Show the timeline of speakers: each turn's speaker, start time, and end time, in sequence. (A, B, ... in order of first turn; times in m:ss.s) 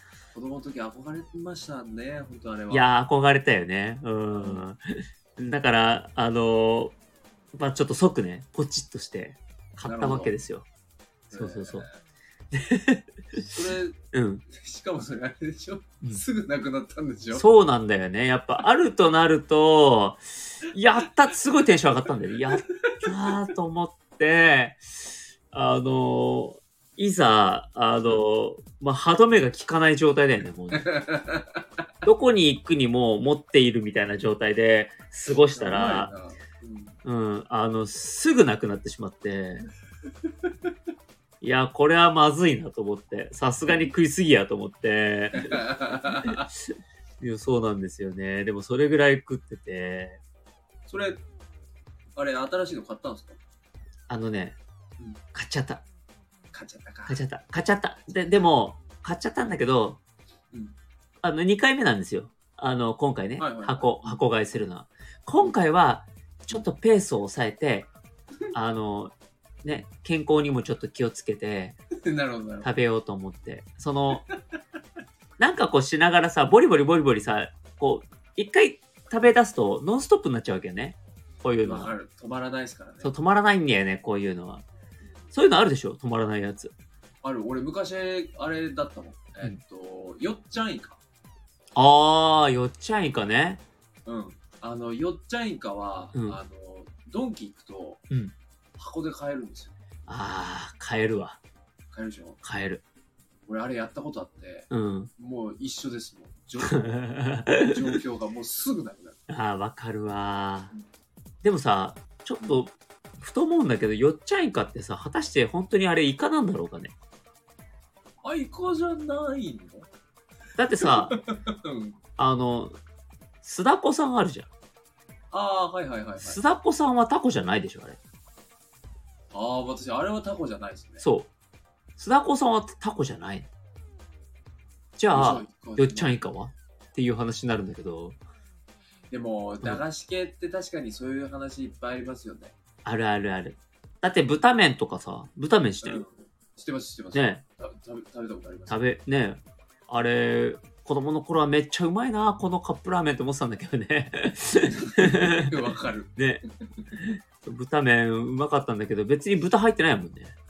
0:00.3-0:02.9 A
0:02.7-0:04.8 B
0:04.3-0:04.6 A
0:05.4-0:07.0 B
0:07.5-0:10.6 B
0:09.8-0:10.4 A
0:11.3-0:11.8 B
0:11.3-0:11.9 A
0:12.5-0:13.5 B
0:13.3-0:14.0 A
0:14.1-0:14.4 B
0:14.5-0:17.4 A
0:17.3-0:24.8 B
0:22.8-0:23.1 A
0:25.5-0:30.9 B
0:30.7-0:31.6 A
0:32.0-0:36.1 B
0:35.5-0:37.0 A
0:37.0-0:39.6 B
0:41.4-0:45.6 B
0:45.4-0:46.5 A
0:47.2-0:50.2 B
0:50.9-0:51.2 A
0:52.2-0:53.4 A
0:54.1-0:54.6 B
0:55.3-0:55.8 B
0:56.5-0:57.2 A
0:57.1-1:00.0 B
1:01.2-1:07.9 B
1:03.4-1:04.2 A
1:08.5-1:11.8 B
1:12.0-1:12.7 A
1:12.6-1:14.2 B
1:15.4-1:21.9 B
1:21.6-1:23.1 A
1:23.0-1:24.6 B
1:25.0-1:25.3 A
1:25.3-1:26.7 B
1:27.2-1:31.0 A
1:31.7-1:33.6 B
1:34.0-1:38.0 A
1:38.8-1:39.8 A
1:40.1-1:41.4 B
1:41.9-1:42.4 A
1:42.4-1:42.8 B
1:43.5-1:49.2 A
1:44.7-1:45.1 B
1:46.6-1:47.7 B
1:49.3-1:50.7 B
1:51.4-1:56.9 B
1:58.2-1:59.9 A
2:00.6-2:01.1 B
2:00.8-2:02.0 A
2:02.2-2:02.8 B
2:03.4-2:04.5 B
2:05.3-2:06.4 A
2:06.2-2:08.0 B
2:09.3-2:11.0 A
2:11.0-2:11.3 B
2:12.0-2:13.5 B
2:15.0-2:18.2 B
2:15.1-2:16.2 A
2:19.1-2:22.5 A
2:22.8-2:26.0 B
2:25.8-2:28.8 A
2:27.1-2:27.4 B
2:28.7-2:35.5 B
2:34.7-2:36.2 A
2:36.2-2:36.4 B
2:36.9-2:40.3 B